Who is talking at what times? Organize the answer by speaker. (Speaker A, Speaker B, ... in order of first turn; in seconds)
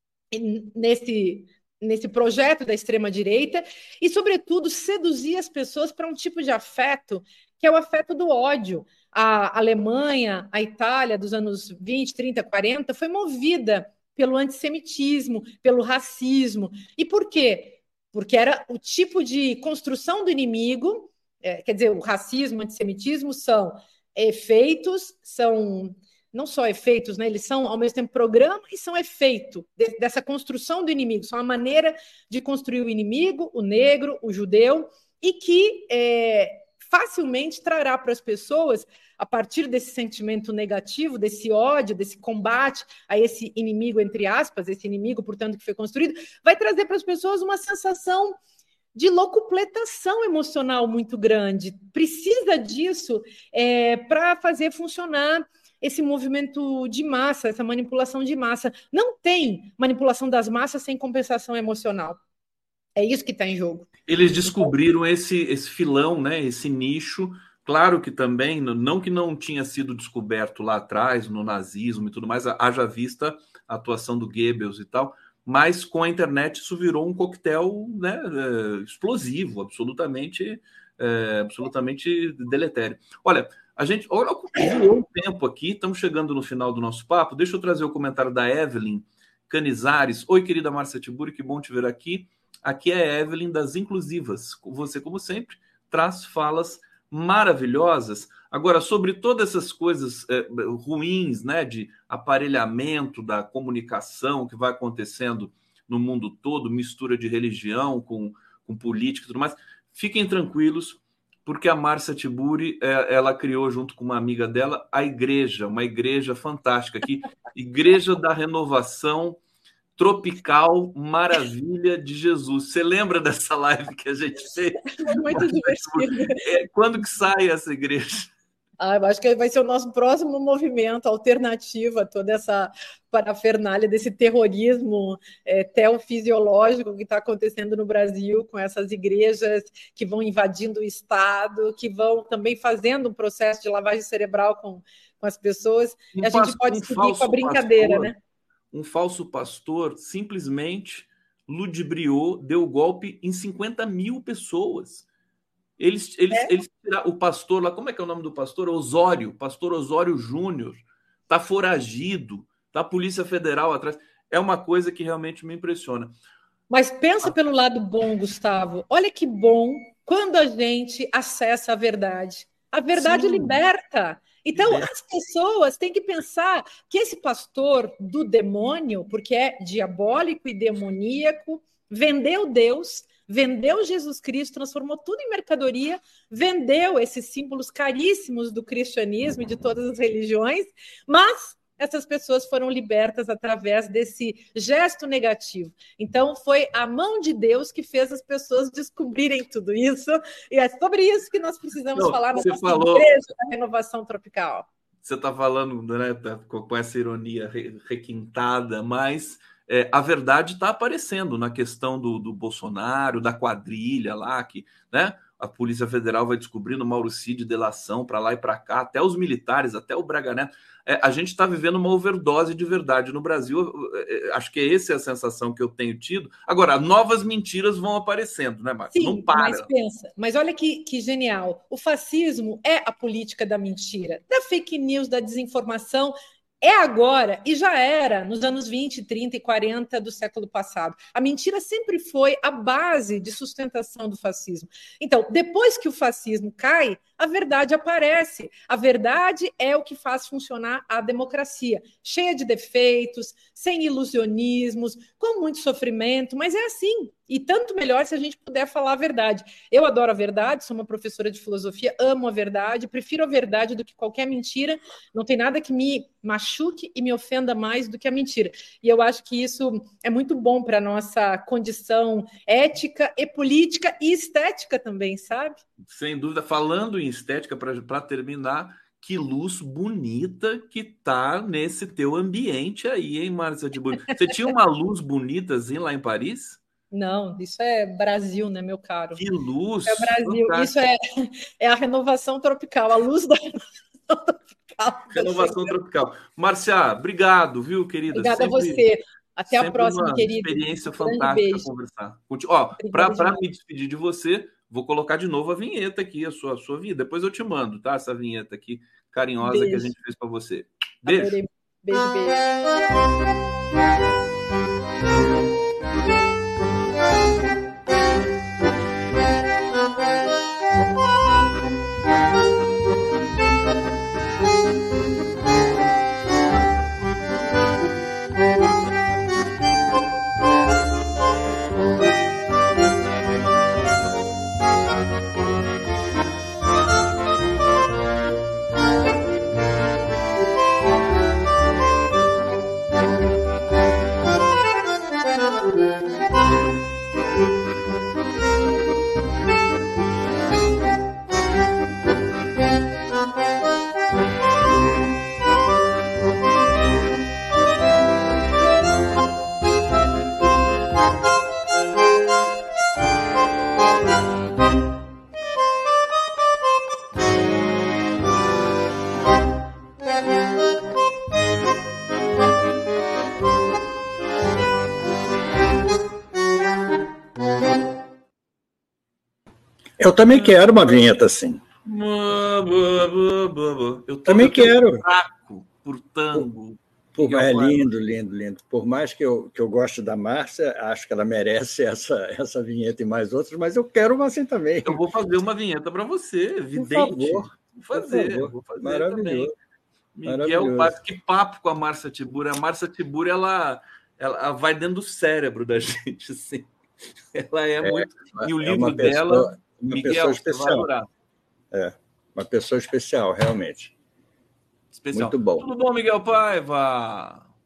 Speaker A: 0.3-48.4, 48.9-62.2, 63.0-63.9, 124.9-126.4, 128.8-148.2, 166.7-204.7, 228.9-275.6, 286.9-289.2, 289.9-295.7, 298.1-301.7, 302.8-303.4, 309.4-309.9, 311.1-312.4
Speaker B: 64.1-119.4, 120.0-128.3, 146.1-148.1, 148.7-155.0, 155.8-166.1, 172.9-173.6, 174.5-174.9, 201.9-203.2, 205.0-229.7, 275.8-286.6, 289.1-290.8, 295.1-298.8, 299.5-311.4, 381.8-387.9, 394.8-399.5, 400.1-406.7, 407.3-411.1, 414.9-417.5
Speaker C: 380.0-381.6, 384.2-385.0, 387.1-395.0, 396.7-399.5, 400.2-400.9, 407.8-410.9, 411.7-413.9, 415.1-415.7